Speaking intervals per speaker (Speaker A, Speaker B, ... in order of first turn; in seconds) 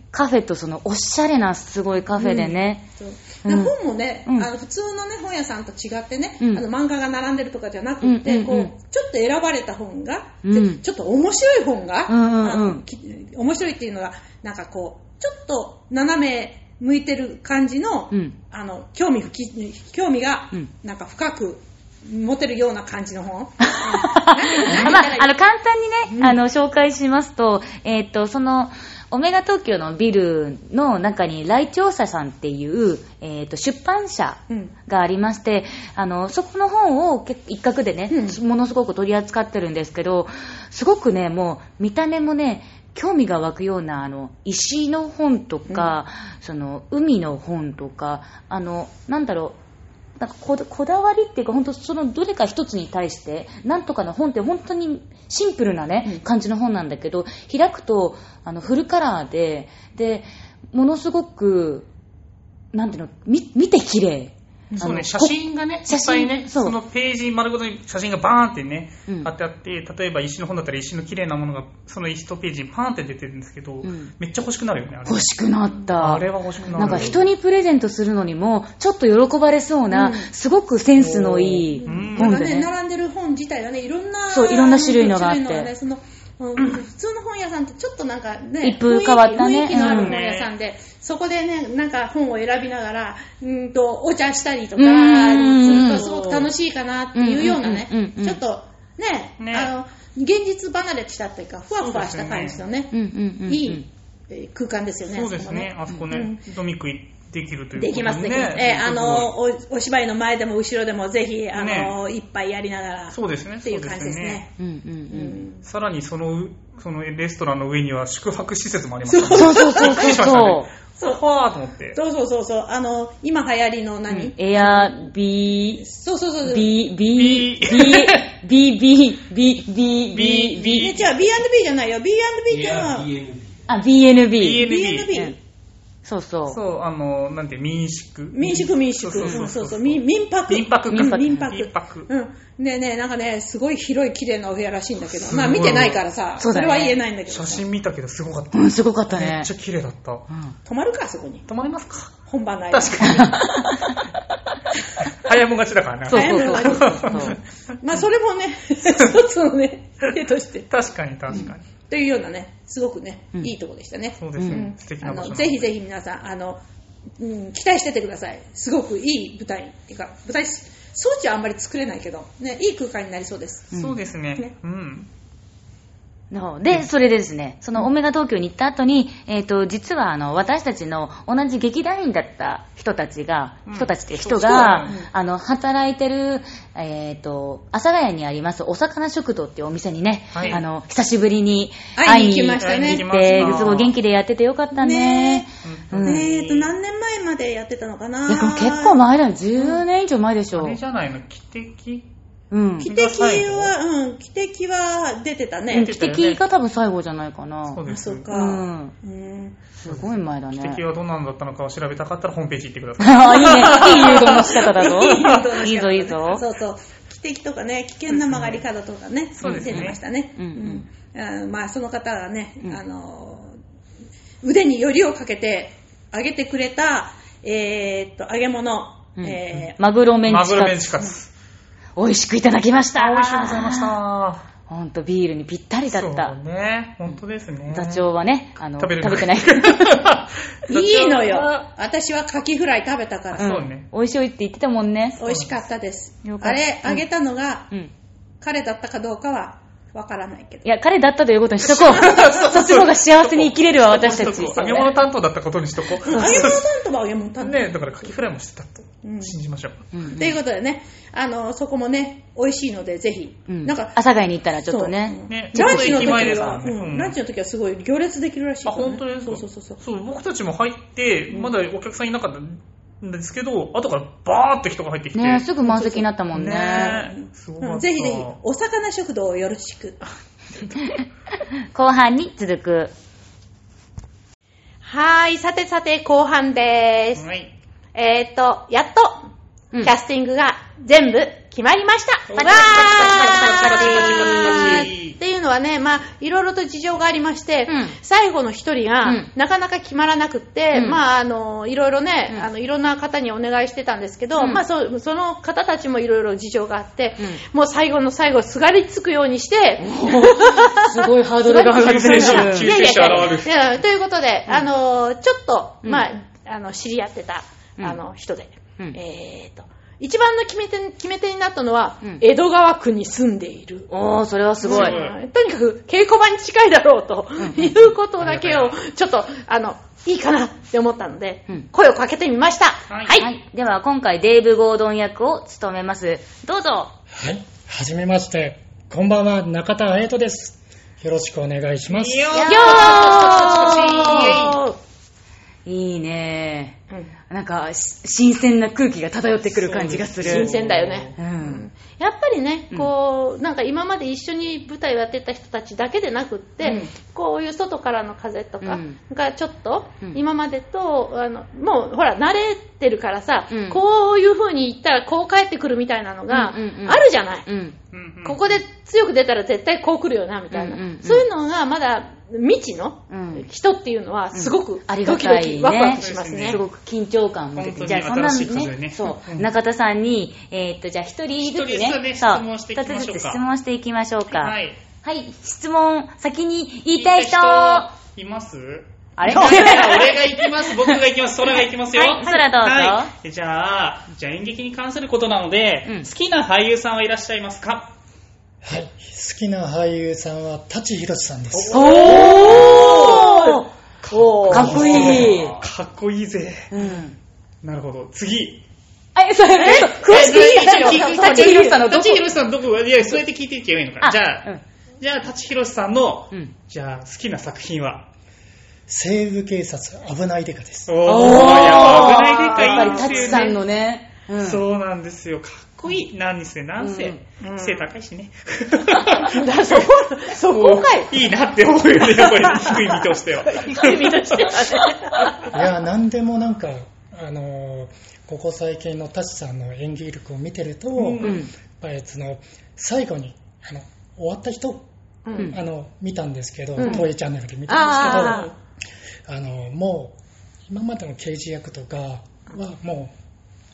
Speaker A: 0.1-2.8, 3.4-3.7, 8.0-8.7, 10.4-10.8, 12.1-12.8, 23.6-49.6, 50.2-61.9, 62.7-66.8, 73.8-74.1, 75.0-82.7, 84.3-85.7, 88.6-90.2, 94.8-96.1, 97.1-98.4, 102.9-103.8, 114.6-115.4, 119.3-120.7, 124.1-125.8, 126.4-130.9, 133.7-135.3, 136.0-136.6, 139.2-139.4, 140.9-141.5, 146.4-147.0, 148.5-149.5, 150.3-150.5, 153.0-154.0, 156.1-157.4, 164.4-164.7, 176.3-196.3, 198.3-200.8, 202.5-202.9, 205.7-208.9, 209.8-210.8, 213.0-216.4, 219.4-220.8, 229.2-231.1, 231.9-233.9, 234.7-236.3, 237.7-240.0, 243.3-245.2, 246.2-247.0, 250.6-254.9, 256.1-256.5, 259.9-260.4, 263.5-266.6, 275.1-277.0, 280.8-281.0, 281.7-282.9, 292.4-294.9, 297.7-297.9, 300.7-301.0, 304.4-304.6, 309.8-312.8, 323.9-325.0, 327.4-327.7, 333.2-336.9, 342.3-344.5, 345.6-350.5, 351.2-351.6, 356.6-356.9, 358.6-359.0, 363.5-363.8, 366.3-367.8, 370.5-371.2, 373.1-373.4, 374.3-387.9, 389.2-390.3, 391.9-393.1, 401.7-403.7, 404.5-405.6, 406.7-407.1, 409.1-412.2, 414.0-414.6, 421.0-424.6, 426.8-427.2, 441.2-441.5
Speaker B: 2.1-25.3, 26.1-26.4, 38.1-38.4, 76.6-77.1, 79.9-80.3, 81.7-102.9, 103.5-106.4, 107.8-114.5, 115.1-115.6, 119.1-120.2, 121.9-125.1, 125.8-126.8, 130.6-133.2, 134.6-135.4, 138.3-147.6, 150.6-151.4, 152.3-153.3, 156.1-160.7, 161.3-166.6, 167.2-173.7, 184.5-185.1, 191.9-193.8, 194.7-195.4, 196.0-199.0, 199.6-199.8, 202.8-205.9, 207.9-209.6, 213.4-223.6, 224.4-229.8, 240.7-243.6, 245.2-247.7, 248.4-250.7, 251.9-252.3, 256.0-257.8, 259.0-259.4, 260.1-264.0, 264.7-269.8, 275.6-276.1, 276.6-280.0, 284.8-287.2, 287.9-289.2, 289.8-323.9, 324.6-333.3, 342.4-344.8, 350.2-367.4, 368.2-376.6, 389.2-390.2, 401.7-405.2, 409.6-411.8, 421.3-423.6, 427.4-427.9, 429.2-431.2, 432.2-435.5, 445.2-445.5, 446.8-447.1, 447.7-448.5
Speaker C: 64.8-77.2, 81.8-82.4, 89.7-90.5, 95.7-96.5, 99.4-99.7, 101.8-102.6, 105.0-109.3, 111.5-112.0, 113.1-114.4, 115.6-122.0, 127.1-128.3, 130.1-131.1, 134.4-135.2, 136.5-142.1, 145.1-146.0, 147.3-150.3, 151.5-153.7, 155.2-157.4, 160.7-161.6, 164.2-165.7, 173.7-175.1, 183.7-185.0, 190.3-190.6, 192.6-193.9, 195.6-196.7, 200.5-202.1, 202.8-203.7, 205.7-206.4, 207.7-208.3, 209.8-215.4, 218.1-218.6, 219.4-220.0, 230.2-231.3, 232.9-234.4, 235.9-238.1, 238.8-241.7, 243.3-243.8, 245.2-245.5, 251.7-256.6, 257.4-259.9, 265.3-267.1, 268.6-275.4, 276.3-278.4, 287.1-287.5, 292.3-295.2, 311.7-313.5, 324.6-325.1, 328.2-328.8, 332.9-333.2, 341.9-344.6, 349.4-351.2, 367.9-368.6, 375.9-376.6, 377.5-379.5, 381.4-383.4, 384.3-384.8, 386.9-397.9, 401.5-403.3, 404.0-406.7, 407.6-408.6, 409.7-418.1, 420.9-423.6, 424.4-434.6, 440.9-441.4
Speaker D: 81.0-81.7, 337.1-342.3, 398.6-401.9, 404.5-405.4, 418.9-420.9, 435.5-444.9, 445.5-448.5, 449.3-450.2, 450.7-453.1